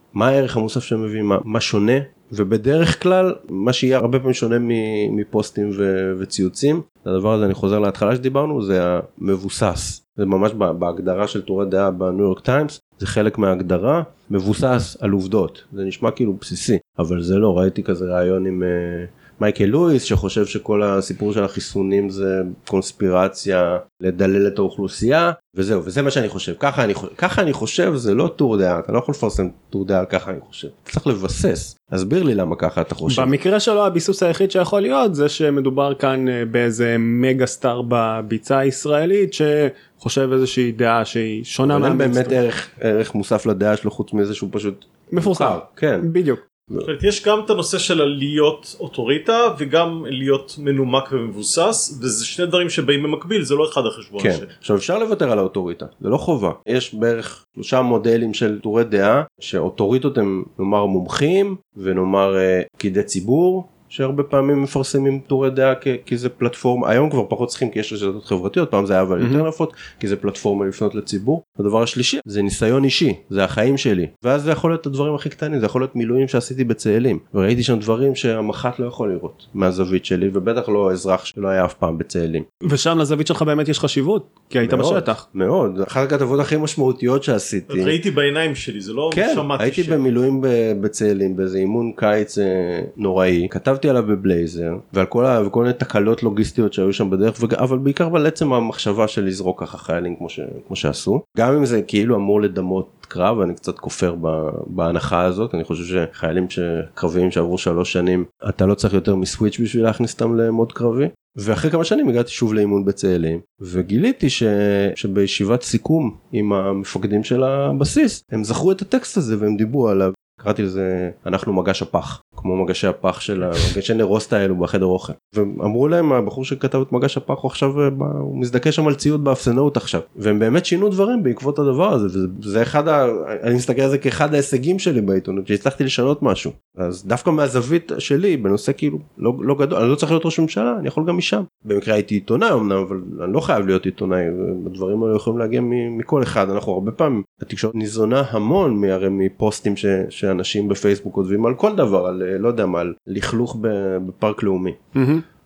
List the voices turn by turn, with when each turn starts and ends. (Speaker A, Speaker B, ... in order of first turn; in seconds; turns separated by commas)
Speaker A: 0.1-33.3, Speaker B: 33.1-42.4, Speaker A: 41.6-46.1, Speaker B: 45.1-46.4, Speaker C: 46.8-54.5, Speaker A: 54.2-82.5, Speaker B: 69.2-69.4, Speaker B: 82.7-85.2, Speaker A: 84.6-88.0, Speaker C: 87.7-90.0, Speaker A: 89.1-154.8, Speaker B: 154.9-155.2